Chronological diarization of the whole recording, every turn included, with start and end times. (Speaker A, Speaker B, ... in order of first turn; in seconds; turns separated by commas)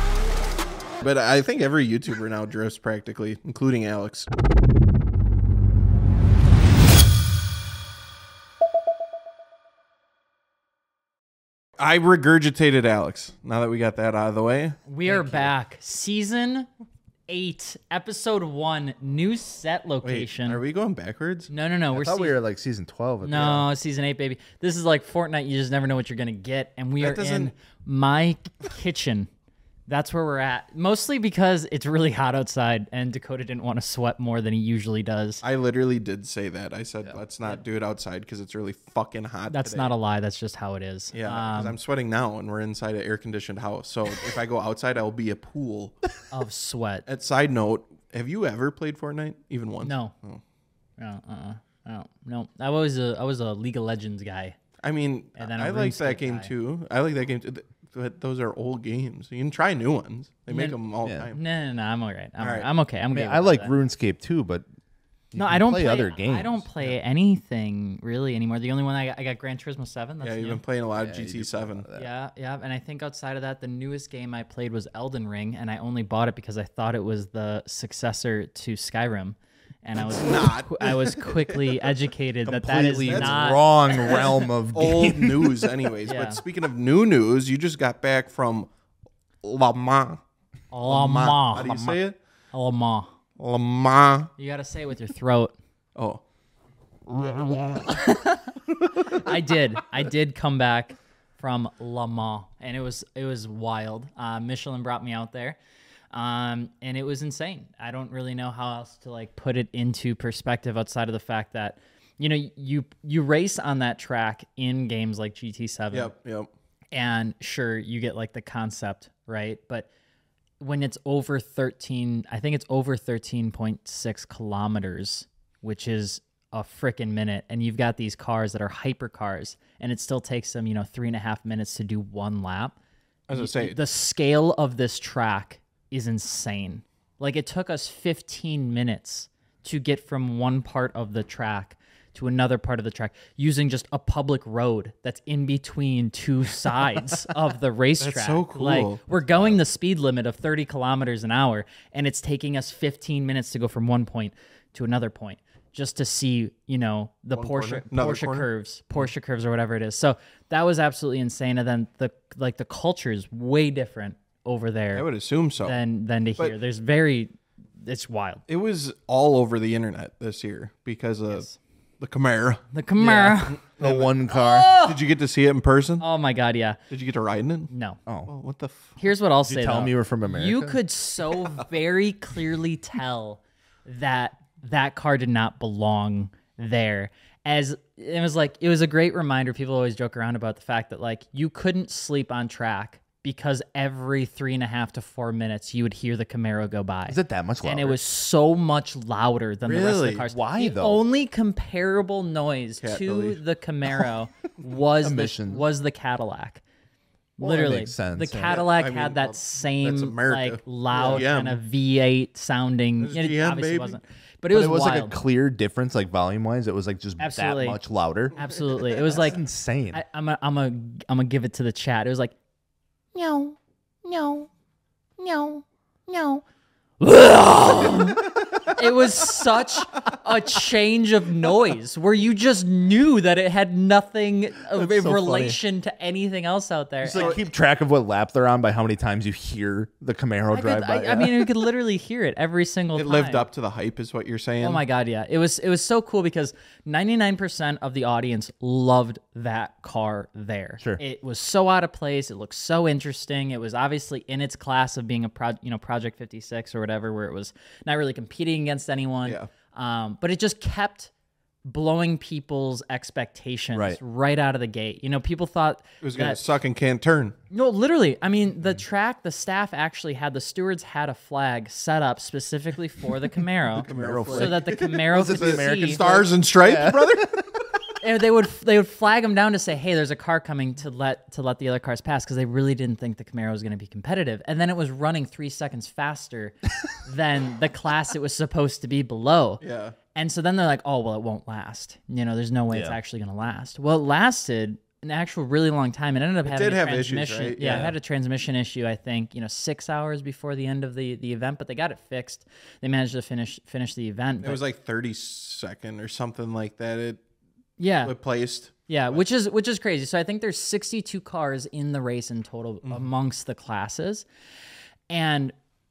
Speaker A: 1.0-4.3, Speaker A: 11.8-14.8, Speaker B: 14.9-16.7, Speaker C: 15.0-15.5, Speaker B: 17.3-20.6, Speaker A: 20.0-21.5, Speaker B: 21.5-22.4, Speaker C: 21.9-23.7, Speaker B: 23.2-29.3, Speaker A: 27.0-27.5, Speaker B: 29.9-35.4, Speaker A: 35.4-39.9, Speaker B: 39.5-41.8, Speaker A: 41.1-46.0, Speaker B: 46.3-47.0, Speaker A: 47.0-50.4, Speaker B: 49.8-50.1, Speaker B: 51.0-54.6, Speaker A: 54.8-61.4, Speaker B: 55.4-56.5, Speaker B: 60.5-60.8, Speaker B: 61.3-63.7, Speaker A: 62.4-62.7, Speaker C: 63.1-64.7, Speaker C: 65.3-66.7, Speaker B: 65.4-70.6, Speaker A: 70.2-71.8, Speaker C: 71.0-72.1, Speaker B: 72.0-84.4, Speaker A: 80.0-81.9, Speaker C: 82.5-85.7, Speaker A: 83.1-88.7, Speaker B: 86.1-86.4, Speaker A: 89.4-90.2, Speaker B: 90.7-91.7, Speaker A: 90.9-92.2, Speaker C: 91.6-92.0, Speaker B: 92.5-93.1, Speaker A: 93.4-94.3, Speaker B: 94.4-95.5, Speaker A: 96.0-96.2, Speaker B: 97.8-98.5, Speaker B: 99.0-105.6, Speaker B: 106.1-116.1, Speaker A: 115.9-116.5, Speaker B: 116.9-119.9, Speaker B: 120.6-132.8, Speaker A: 133.3-133.8, Speaker B: 133.3-165.1, Speaker A: 148.0-149.6, Speaker A: 157.3-159.1, Speaker A: 164.9-165.8, Speaker B: 165.6-167.3, Speaker B: 167.8-168.4, Speaker A: 168.5-171.4, Speaker B: 171.3-171.6, Speaker A: 172.0-172.6, Speaker B: 172.7-173.6, Speaker C: 173.0-174.7, Speaker A: 173.5-174.1, Speaker B: 174.3-175.0, Speaker A: 174.8-176.1, Speaker B: 176.0-176.8, Speaker A: 176.9-177.7, Speaker B: 177.7-178.0, Speaker A: 178.3-178.9, Speaker B: 179.0-206.6, Speaker C: 179.4-180.8, Speaker C: 197.1-198.0, Speaker A: 199.6-200.2, Speaker C: 200.2-201.0, Speaker A: 202.8-203.4, Speaker C: 205.0-205.6, Speaker B: 207.4-215.1, Speaker C: 207.4-208.6, Speaker A: 208.4-211.6, Speaker A: 213.0-214.0, Speaker C: 214.5-220.0, Speaker B: 217.2-217.8, Speaker B: 218.3-219.4, Speaker B: 219.9-222.3, Speaker B: 223.1-224.5, Speaker B: 225.2-226.4, Speaker B: 227.0-237.4, Speaker C: 234.8-235.6, Speaker C: 237.0-241.5, Speaker A: 237.1-237.4, Speaker B: 240.5-243.5, Speaker A: 242.9-244.8, Speaker B: 244.6-261.1, Speaker A: 259.2-259.5, Speaker B: 261.6-266.4, Speaker C: 263.7-264.0, Speaker A: 266.0-267.4, Speaker B: 267.5-276.0, Speaker C: 273.8-277.4, Speaker A: 273.9-277.4, Speaker B: 278.0-289.6, Speaker A: 289.6-290.0, Speaker B: 290.1-304.6, Speaker C: 292.7-293.0, Speaker A: 296.4-297.9, Speaker A: 304.4-307.2, Speaker B: 307.8-308.1, Speaker A: 308.0-309.2, Speaker B: 308.9-314.2, Speaker B: 315.1-315.6